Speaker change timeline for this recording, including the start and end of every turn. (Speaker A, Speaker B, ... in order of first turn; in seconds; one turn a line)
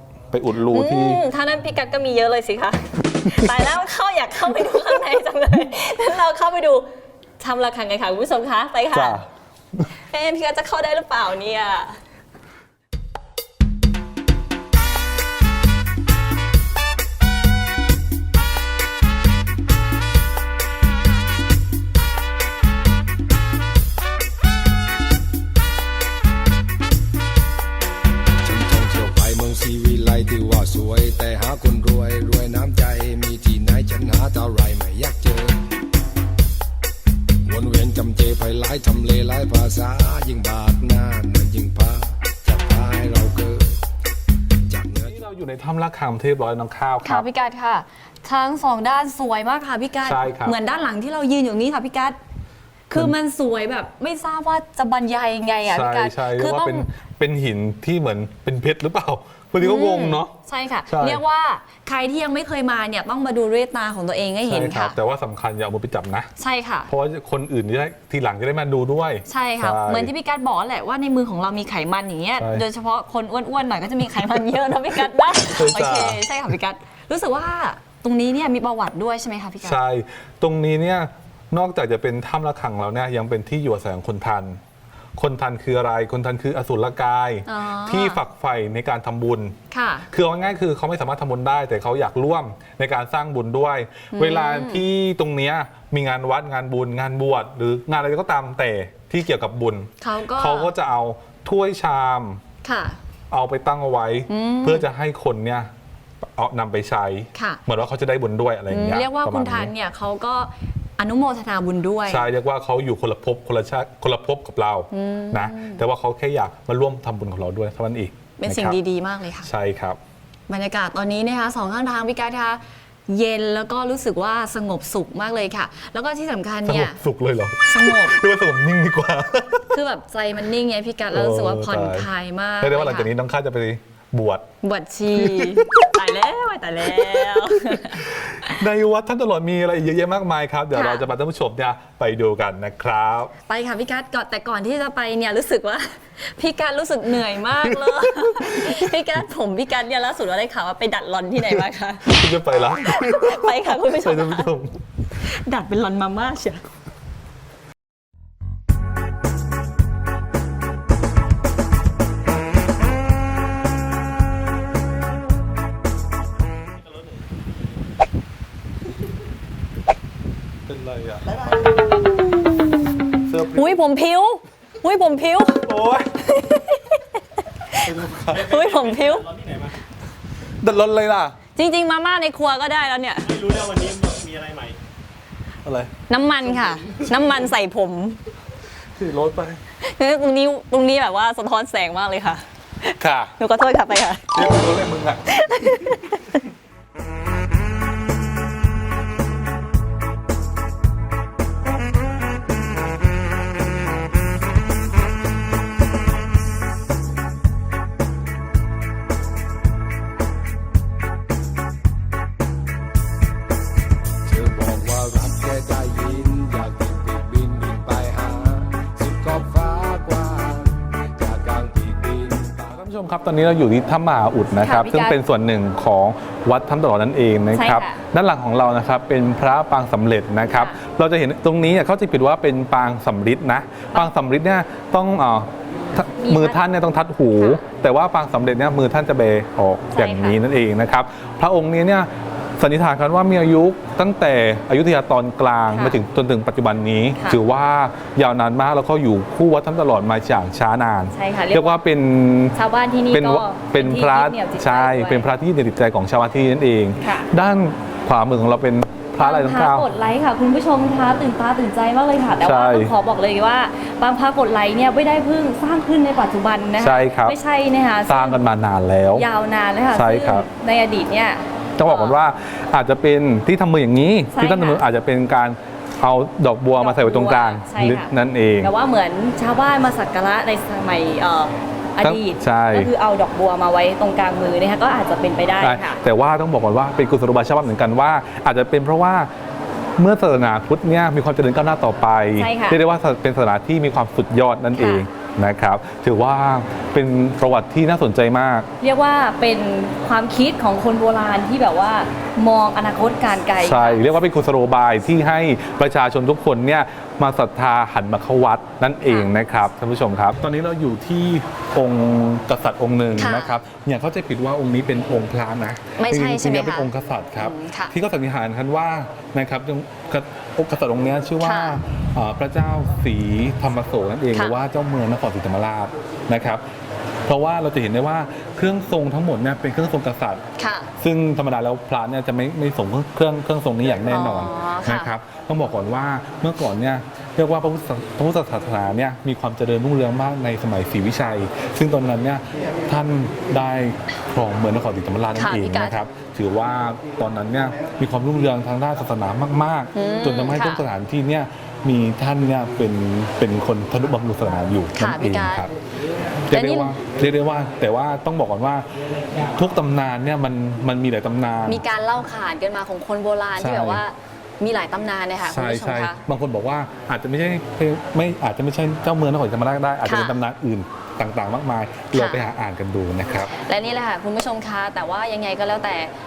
Speaker A: 0.3-1.2
Speaker B: 0.7-6.9
Speaker A: 3.3-3.6
Speaker B: 7.4-9.2
Speaker A: 8.9-9.9
Speaker B: 10.1-12.0
Speaker C: 28.4-35.6
Speaker C: 37.4-43.8
Speaker C: 44.7-45.2
Speaker A: 45.0-47.2
Speaker B: 47.0-52.2
Speaker A: 50.0-50.6
Speaker B: 52.9-56.9
Speaker A: 55.7-60.3
Speaker B: 59.6-65.0
Speaker A: 60.9-61.2
Speaker A: 64.5-66.3
Speaker B: 66.4-66.9
Speaker A: 66.9-70.1
Speaker B: 69.3-79.8
Speaker A: 72.4-72.6
Speaker A: 75.5-76.2
Speaker A: 79.6-84.6
Speaker A: 85.2-89.6
Speaker B: 87.5-88.2
Speaker B: 89.7-90.1
Speaker A: 90.1-102.4
Speaker B: 94.1-94.8
Speaker B: 100.0-100.7
Speaker B: 102.6-103.0
Speaker A: 103.3-105.7
Speaker B: 104.3-104.8
Speaker A: 106.2-109.7
Speaker B: 107.3-107.6
Speaker B: 108.7-112.2
Speaker A: 112.1-118.8
Speaker B: 114.9-115.8
Speaker B: 118.4-119.5
Speaker A: 119.4-120.0
Speaker B: 120.5-127.0
Speaker A: 126.6-129.7
Speaker B: 127.7-128.2
Speaker B: 129.7-133.1
Speaker A: 131.1-132.1
Speaker A: 132.6-134.4
Speaker B: 134.6-138.0
Speaker A: 135.1-136.0
Speaker A: 136.9-143.3
Speaker B: 140.7-141.0
Speaker B: 143.5-152.2
Speaker A: 147.6-148.9
Speaker A: 151.5-154.8
Speaker B: 152.8-154.5
Speaker B: 155.2-156.7
Speaker A: 170.7-171.4
Speaker B: 172.0-173.0
Speaker A: 173.3-173.8
Speaker B: 173.5-175.7
Speaker A: 175.7-176.1
Speaker B: 176.2-177.9
Speaker A: 177.8-178.6
Speaker D: 178.2-179.8
Speaker B: 178.5-179.2
Speaker A: 180.6-181.4
Speaker B: 181.6-183.3
Speaker D: 183.2-184.8
Speaker A: 185.6-185.9
Speaker B: 186.1-188.2
Speaker A: 188.9-189.6
Speaker B: 189.8-192.4
Speaker A: 193.0-193.3
Speaker B: 193.4-194.6
Speaker A: 194.3-195.7
Speaker B: 195.3-196.4
Speaker C: 214.2-222.8
Speaker A: 222.7-252.6
Speaker B: 224.6-225.2
Speaker B: 227.5-228.0
Speaker B: 230.4-230.8
Speaker B: 236.2-236.6
Speaker B: 237.4-237.6
Speaker B: 239.9-240.4
Speaker B: 245.7-246.0
Speaker B: 251.1-251.8
Speaker B: 252.5-255.2
Speaker A: 253.1-259.9
Speaker B: 257.0-257.3
Speaker B: 259.2-268.4
Speaker A: 262.4-262.9
Speaker A: 266.8-267.4
Speaker A: 268.1-269.2
Speaker B: 269.1-272.2
Speaker A: 269.9-270.5
Speaker A: 271.8-278.7
Speaker B: 274.3-274.8
Speaker B: 276.8-286.0
Speaker A: 282.0-282.9
Speaker A: 285.6-289.3
Speaker A: 290.0-298.7
Speaker B: 292.4-292.8
Speaker B: 294.7-295.1
Speaker B: 298.8-304.1
Speaker A: 303.6-326.6
Speaker B: 309.0-309.3
Speaker B: 313.2-313.5
Speaker B: 316.0-317.9
Speaker B: 321.4-321.8
Speaker B: 324.3-324.6
Speaker A: 327.2-330.4
Speaker B: 330.6-330.9
Speaker A: 331.0-355.7
Speaker B: 334.1-335.1
Speaker B: 345.4-345.9
Speaker B: 349.9-350.8
Speaker B: 354.9-355.7
Speaker A: 356.5-358.9
Speaker B: 356.5-356.9
Speaker A: 359.4-361.8
Speaker B: 361.7-366.2
Speaker A: 363.6-364.0
Speaker A: 365.4-373.5
Speaker B: 370.0-370.4
Speaker B: 372.1-372.4
Speaker B: 373.5-376.1